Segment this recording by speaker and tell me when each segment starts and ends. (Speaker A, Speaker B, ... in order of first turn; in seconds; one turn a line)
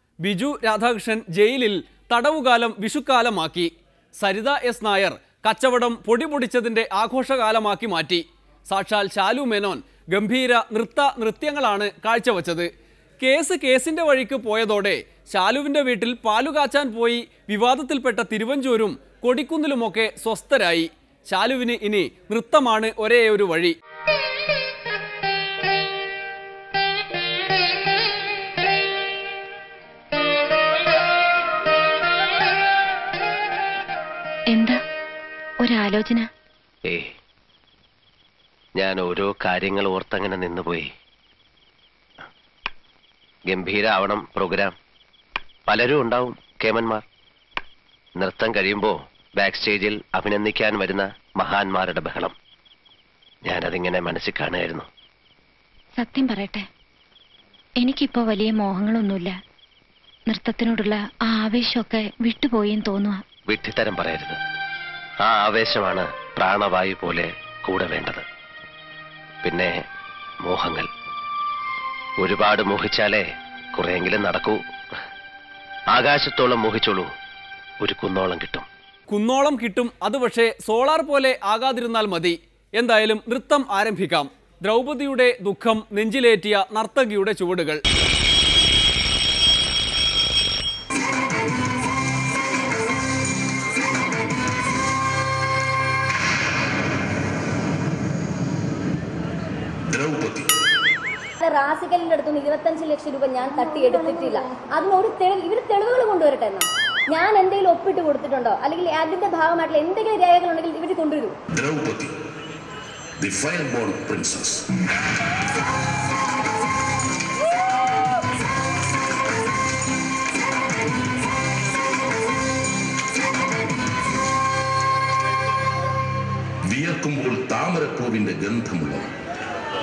Speaker A: 0.2-12.7
Speaker A: 13.2-23.8
Speaker B: 34.5-34.8
Speaker B: 35.6-36.3
Speaker C: 38.8-40.9
Speaker C: 43.5-44.7
Speaker C: 45.7-47.0
Speaker C: 48.2-52.3
Speaker C: 53.5-54.9
Speaker B: 56.0-56.7
Speaker B: 57.8-59.4
Speaker B: 60.3-63.2
Speaker C: 63.5-64.4
Speaker C: 65.2-68.2
Speaker C: 69.4-69.7
Speaker C: 70.4-70.9
Speaker C: 72.2-74.6
Speaker C: 75.9-77.1
Speaker C: 77.8-78.7
Speaker A: 79.1-87.8
Speaker D: 99.9-100.5
Speaker E: 101.4-111.4
Speaker D: 111.5-112.1
Speaker D: 113.2-114.6
Speaker D: 126.7-129.1